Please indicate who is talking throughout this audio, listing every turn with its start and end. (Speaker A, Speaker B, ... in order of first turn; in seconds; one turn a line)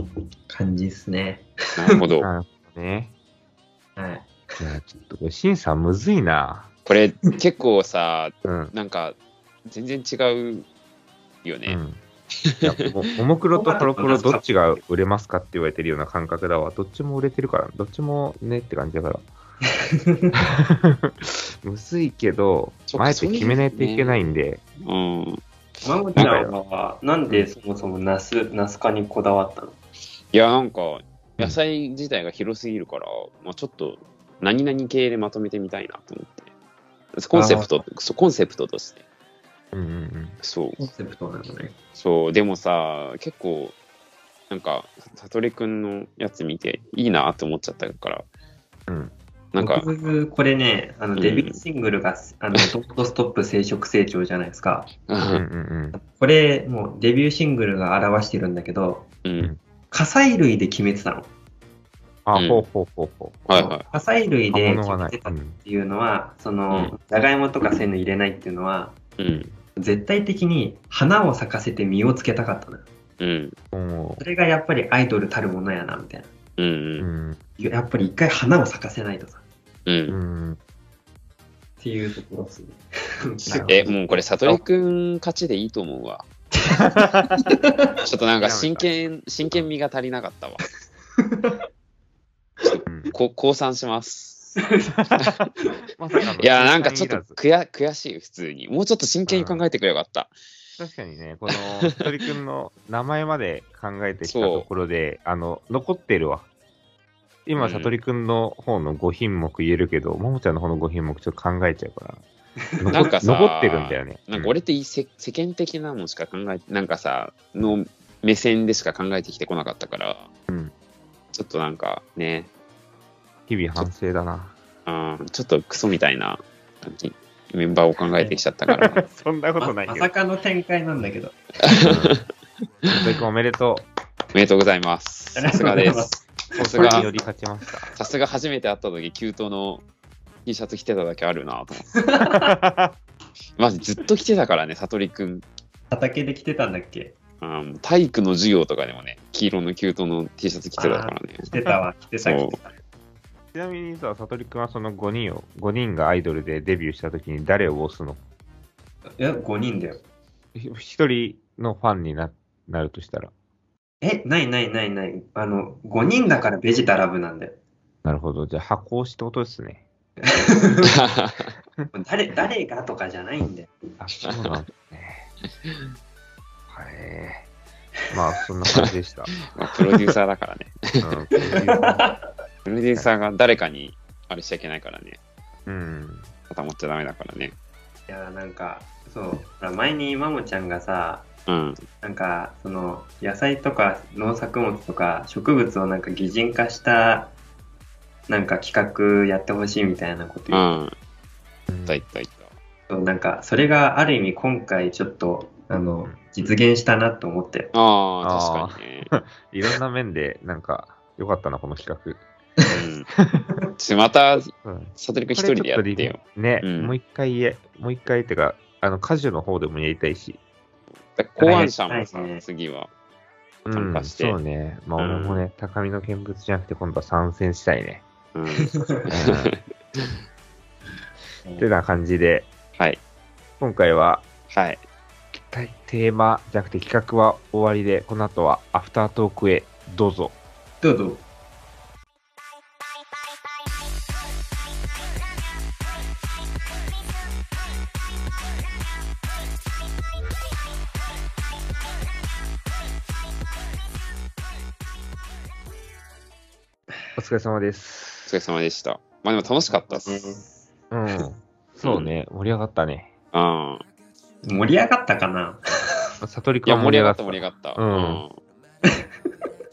Speaker A: 0.5-1.5
Speaker B: 1.8-2.3
Speaker C: 2.2-3.1
Speaker A: 4.0-4.6
Speaker C: 4.6-6.7
Speaker B: 6.8-10.7
Speaker C: 8.4-8.7
Speaker B: 11.4-11.8
Speaker C: 11.7-12.0
Speaker B: 12.4-12.9
Speaker C: 12.6-19.3
Speaker A: 13.5-14.4
Speaker A: 20.0-20.4
Speaker C: 20.4-24.6
Speaker B: 22.9-24.3
Speaker B: 24.8-25.4
Speaker A: 25.8-29.8
Speaker C: 26.1-26.5
Speaker B: 30.3-36.5
Speaker B: 37.1-39.0
Speaker A: 37.3-37.8
Speaker C: 39.7-40.4
Speaker B: 40.4-40.8
Speaker A: 40.8-41.7
Speaker B: 42.0-43.8
Speaker B: 44.5-48.2
Speaker C: 48.9-49.1
Speaker B: 49.5-49.9
Speaker A: 49.6-54.9
Speaker B: 51.2-51.6
Speaker B: 55.1-55.4
Speaker C: 55.3-56.0
Speaker A: 55.9-59.1
Speaker B: 59.2-59.5
Speaker A: 59.9-61.3
Speaker C: 62.2-63.5
Speaker B: 62.3-62.6
Speaker B: 63.5-63.9
Speaker A: 63.5-69.0
Speaker C: 64.5-65.6
Speaker B: 69.2-69.5
Speaker A: 69.8-72.8
Speaker B: 73.2-73.5
Speaker C: 73.7-74.2
Speaker A: 74.2-76.3
Speaker B: 76.6-77.1
Speaker C: 77.0-77.4
Speaker A: 77.6-79.4
Speaker B: 79.9-80.2
Speaker C: 80.1-80.6
Speaker A: 81.8-83.9
Speaker C: 83.5-83.9
Speaker B: 83.6-86.2
Speaker A: 86.5-87.9
Speaker C: 86.8-87.4
Speaker B: 88.0-90.6
Speaker C: 88.4-88.9
Speaker A: 91.2-91.5
Speaker B: 92.6-94.6
Speaker C: 92.9-93.1
Speaker A: 94.6-95.0
Speaker C: 95.0-97.4
Speaker B: 96.4-100.3
Speaker C: 99.3-99.6
Speaker C: 100.8-106.5
Speaker B: 101.5-101.9
Speaker B: 104.2-104.7
Speaker C: 107.5-112.2
Speaker B: 107.6-107.9
Speaker C: 112.8-114.5
Speaker A: 112.8-113.1
Speaker B: 112.9-120.3
Speaker C: 120.5-120.7
Speaker B: 121.3-122.5
Speaker C: 123.5-124.5
Speaker B: 124.8-129.0
Speaker C: 128.7-130.1
Speaker A: 129.6-131.8
Speaker B: 131.7-132.2
Speaker C: 131.8-132.2
Speaker C: 132.9-133.8
Speaker B: 134.3-136.1
Speaker A: 135.3-137.2
Speaker C: 136.6-137.9
Speaker B: 136.6-137.1
Speaker B: 138.0-139.8
Speaker B: 140.4-141.9
Speaker A: 141.9-142.5
Speaker C: 142.3-142.9
Speaker B: 143.6-145.4
Speaker A: 145.9-147.1
Speaker B: 147.4-151.5
Speaker A: 150.8-152.7
Speaker B: 152.2-152.6
Speaker C: 153.5-158.2
Speaker A: 159.2-160.0
Speaker C: 160.5-163.3
Speaker A: 164.0-167.6
Speaker C: 168.0-169.8
Speaker A: 170.2-170.9
Speaker B: 170.9-171.5
Speaker A: 171.9-173.7
Speaker C: 174.0-175.3
Speaker C: 176.7-177.5
Speaker C: 178.1-179.3
Speaker B: 178.7-181.2
Speaker C: 181.0-182.1
Speaker A: 181.4-182.2
Speaker B: 182.7-185.2
Speaker C: 185.7-186.3
Speaker B: 186.5-187.6
Speaker A: 188.1-191.3
Speaker B: 191.5-191.8
Speaker A: 192.0-197.3
Speaker A: 198.3-200.8
Speaker B: 200.5-200.9
Speaker C: 201.7-202.0
Speaker B: 201.9-202.5
Speaker A: 202.9-207.7
Speaker B: 207.7-209.1
Speaker C: 208.2-212.2
Speaker B: 212.7-213.1
Speaker C: 213.2-213.4
Speaker B: 213.8-216.9
Speaker C: 214.6-220.4
Speaker B: 221.2-222.9
Speaker A: 221.4-222.4
Speaker C: 223.7-228.0
Speaker B: 223.7-224.4
Speaker B: 225.0-225.4
Speaker B: 228.3-229.6
Speaker A: 228.6-229.0
Speaker C: 229.1-229.5
Speaker C: 231.6-232.5
Speaker C: 233.6-234.2
Speaker B: 234.5-234.8
Speaker C: 235.3-240.3
Speaker A: 240.8-241.2
Speaker C: 257.2-258.3
Speaker B: 258.3-260.3
Speaker A: 259.7-260.6
Speaker C: 260.9-263.1
Speaker B: 261.8-262.1
Speaker B: 263.3-263.8
Speaker A: 264.4-265.6
Speaker C: 266.2-268.2
Speaker B: 266.6-268.4